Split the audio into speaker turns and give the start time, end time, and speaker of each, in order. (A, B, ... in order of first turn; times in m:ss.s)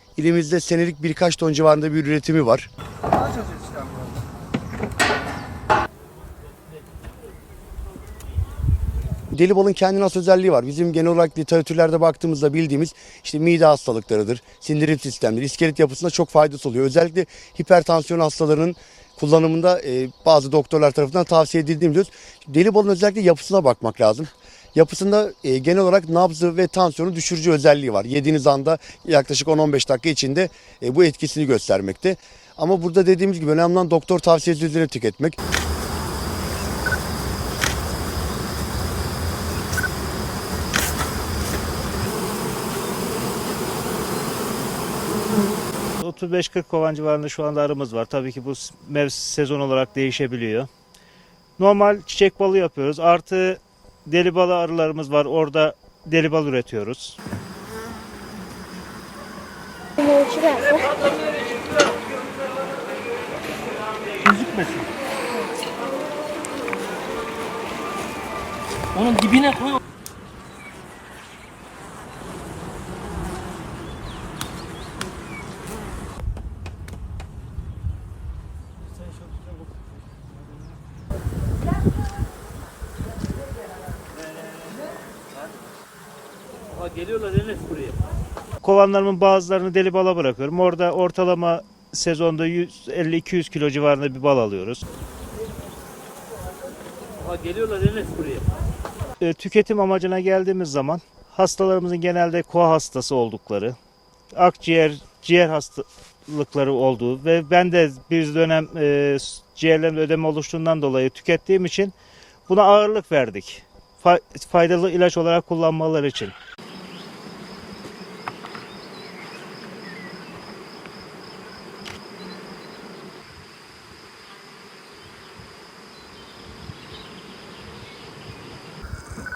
0:00.2-0:02.7 A
0:09.3-0:35.4 A
0:46.0-0:50.7 B
0:51.6-0:57.2 B
1:00.0-1:00.9 C
1:04.3-1:04.7 C
1:09.2-1:09.7 C
1:26.9-1:27.9 C
1:28.6-1:34.8 B
1:37.4-1:38.4 C
1:39.2-1:43.8 B
1:44.3-1:51.9 B
1:52.5-1:56.4 B